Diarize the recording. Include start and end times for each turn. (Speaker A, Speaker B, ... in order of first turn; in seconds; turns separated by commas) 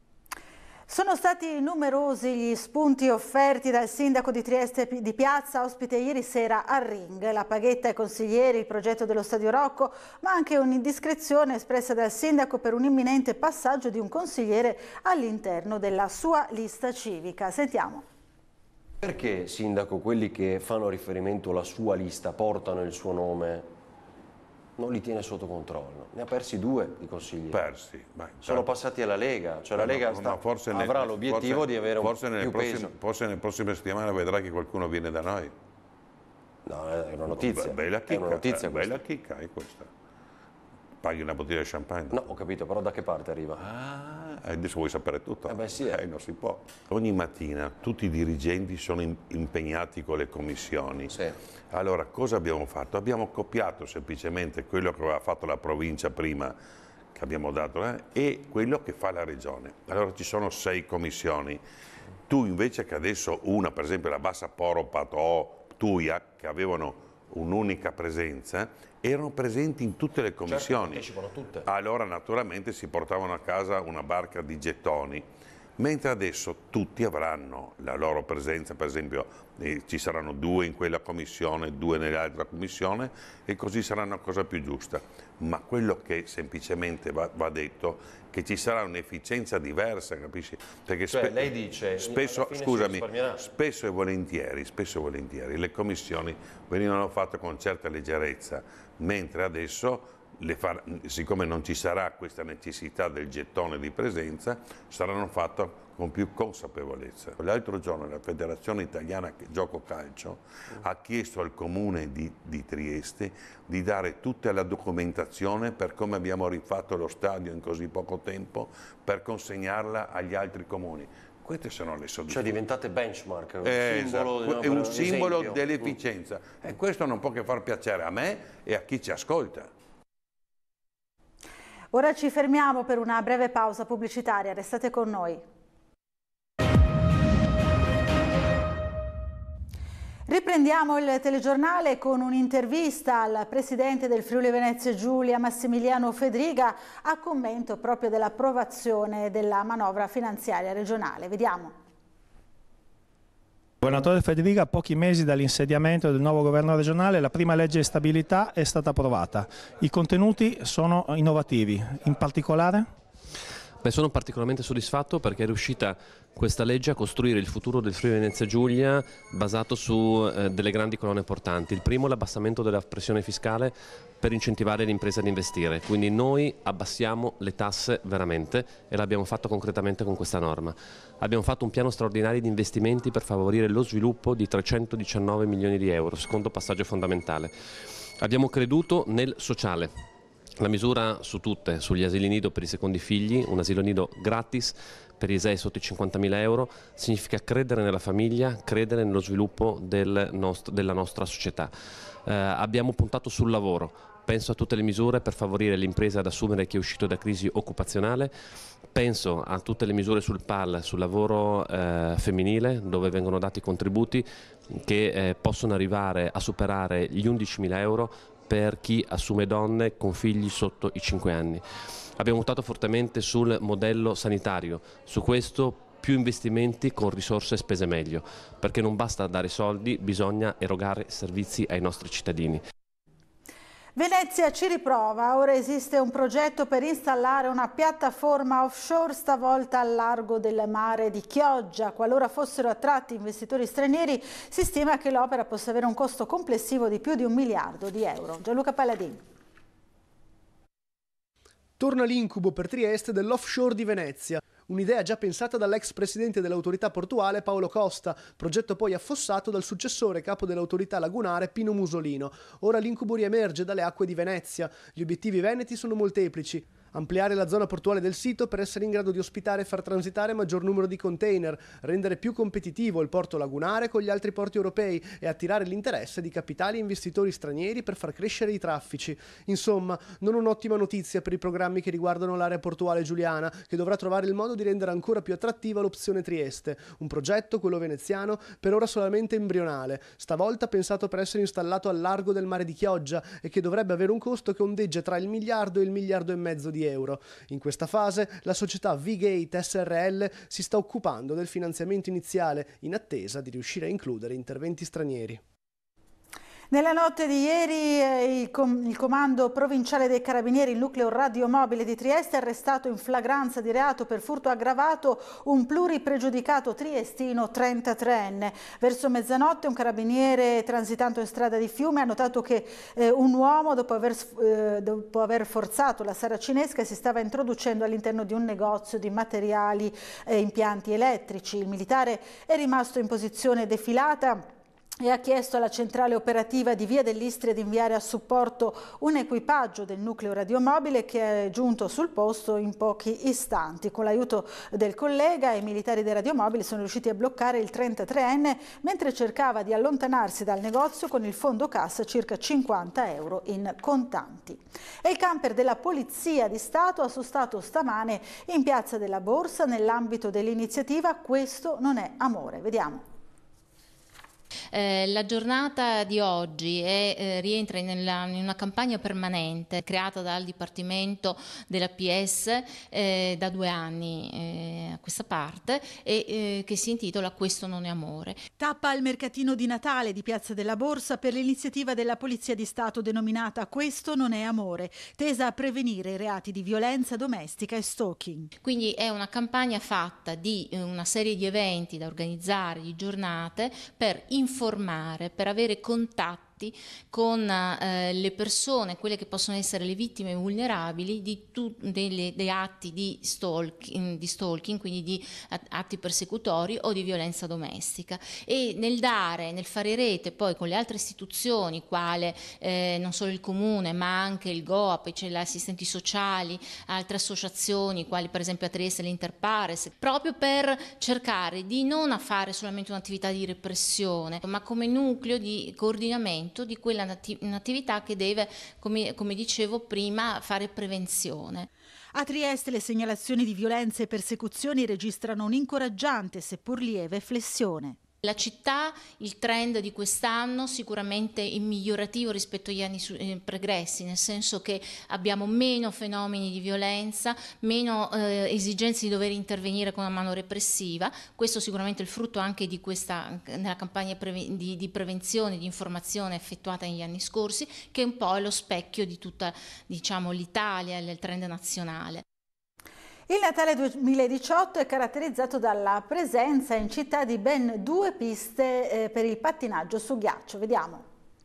Speaker A: 0.9-18.0, Speaker B: 19.0-23.7, Speaker B: 24.8-27.6, Speaker C: 27.5-28.7, Speaker B: 28.4-32.9, Speaker C: 29.8-35.5, Speaker B: 36.7-39.0, Speaker C: 37.3-39.9, Speaker C: 41.0-42.2, Speaker B: 42.1-43.6, Speaker C: 43.6-51.2, Speaker B: 45.5-46.0, Speaker B: 51.1-51.4, Speaker C: 51.7-56.6, Speaker C: 57.1-61.6, Speaker C: 62.3-75.2, Speaker B: 70.4-71.7, Speaker C: 75.8-122.6, Speaker B: 91.1-93.5, Speaker B: 122.3-126.0, Speaker C: 123.6-129.7, Speaker A: 131.9-135.4, Speaker A: 140.3-151.7, Speaker D: 153.8-162.9, Speaker E: 163.8-187.5, Speaker E: 188.2-190.1, Speaker E: 190.6-201.7, Speaker E: 202.2-208.3, Speaker E: 208.9-221.6, Speaker E: 222.2-232.6, Speaker A: 234.0-249.2, Speaker F: 251.8-305.4, Speaker A: 306.7-334.4, Speaker A: 335.0-363.0, Speaker G: 364.7-378.4, Speaker A: 378.6-388.5, Speaker G: 388.6-431.7, Speaker A: 432.1-438.0, Speaker G: 438.2-462.2, Speaker A: 463.3-471.0